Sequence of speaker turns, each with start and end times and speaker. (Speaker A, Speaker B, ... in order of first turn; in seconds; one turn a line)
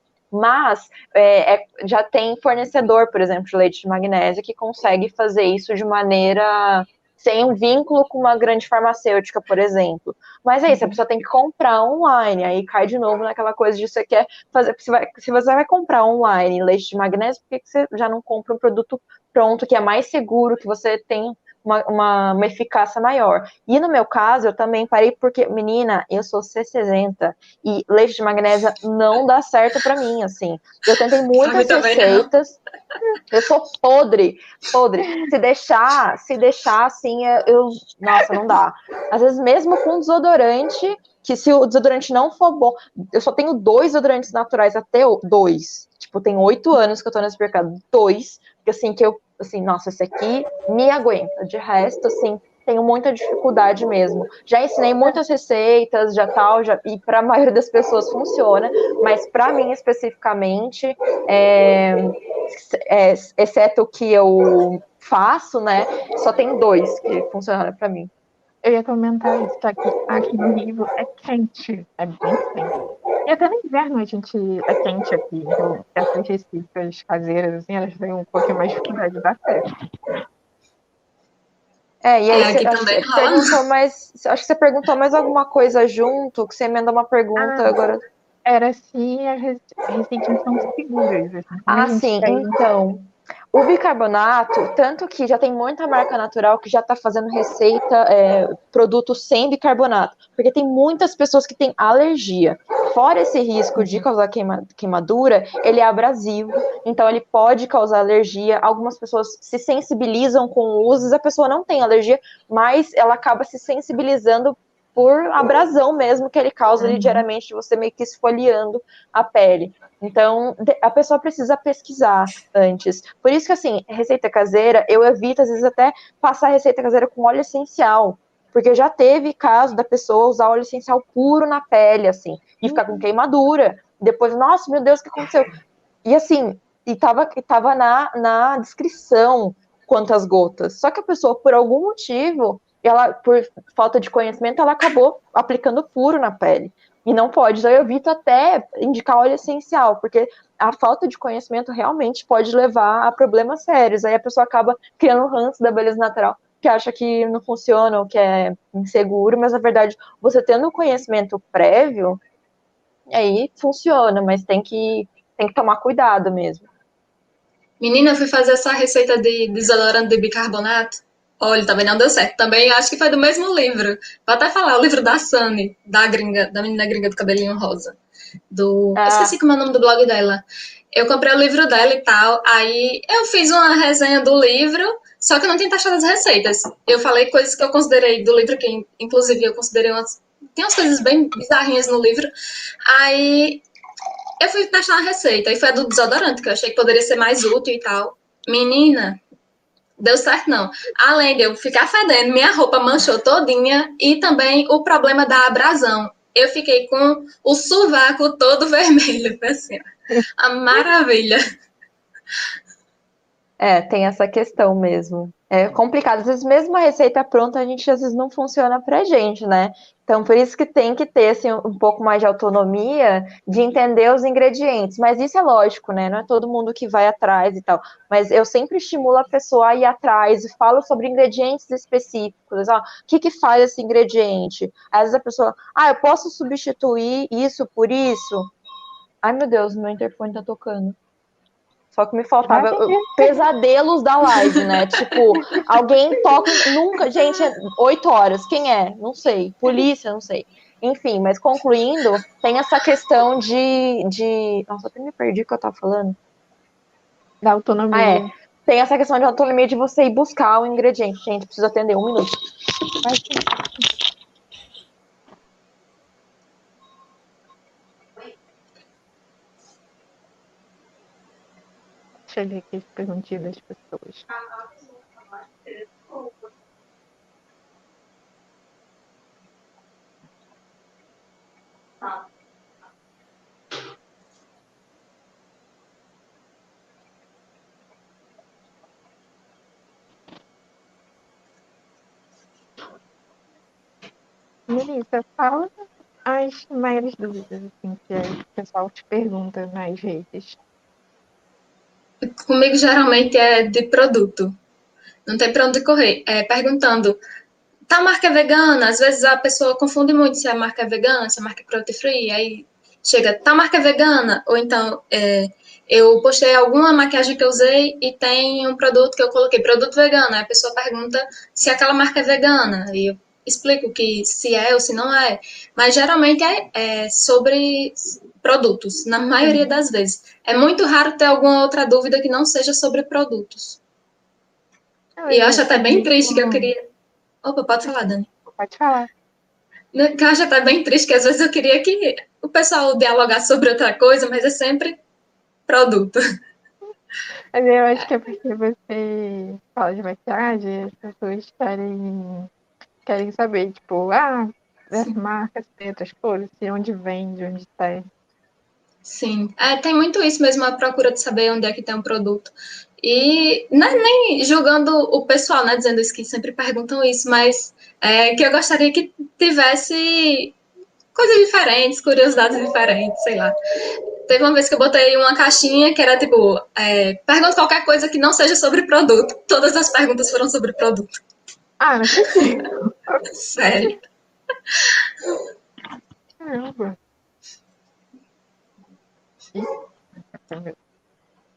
Speaker A: 0.3-32.6
Speaker B: 10.7-11.0
Speaker C: 31.4-32.3
Speaker A: 33.3-68.1
Speaker B: 68.6-79.8
Speaker A: 82.0-88.0
Speaker C: 82.3-83.6
Speaker B: 87.4-87.8
Speaker B: 88.5-92.6
Speaker A: 91.7-135.5
Speaker B: 103.8-104.1
Speaker B: 116.8-117.3
Speaker B: 132.7-133.0
Speaker A: 136.0-162.2
Speaker A: 163.1-166.7
Speaker C: 167.8-178.0
Speaker C: 178.5-180.4
Speaker A: 178.9-179.3
Speaker C: 180.9-192.3
Speaker C: 192.9-193.6
Speaker C: 194.4-199.2
Speaker C: 200.0-209.8
Speaker C: 210.4-211.4
Speaker A: 213.6-238.5
Speaker A: 239.2-241.0
Speaker A: 241.9-256.2
Speaker B: 242.5-243.4
Speaker B: 257.4-258.3
Speaker A: 257.9-262.4
Speaker B: 263.0-263.9
Speaker B: 272.3-274.3
Speaker A: 274.3-276.5
Speaker B: 294.7-300.6
Speaker C: 302.4-304.6
Speaker C: 305.3-307.2
Speaker C: 307.9-333.8
Speaker B: 329.4-329.7
Speaker B: 335.2-336.7
Speaker C: 335.3-336.9
Speaker C: 337.4-338.3
Speaker B: 338.6-339.1
Speaker C: 339.9-345.0
Speaker C: 345.7-346.2
Speaker B: 347.5-352.5
Speaker B: 353.1-358.1
Speaker C: 359.1-370.6
Speaker C: 371.1-373.5
Speaker C: 374.3-381.1
Speaker B: 381.8-383.3
Speaker C: 383.3-384.0
Speaker B: 386.4-387.0
Speaker B: 390.3-390.8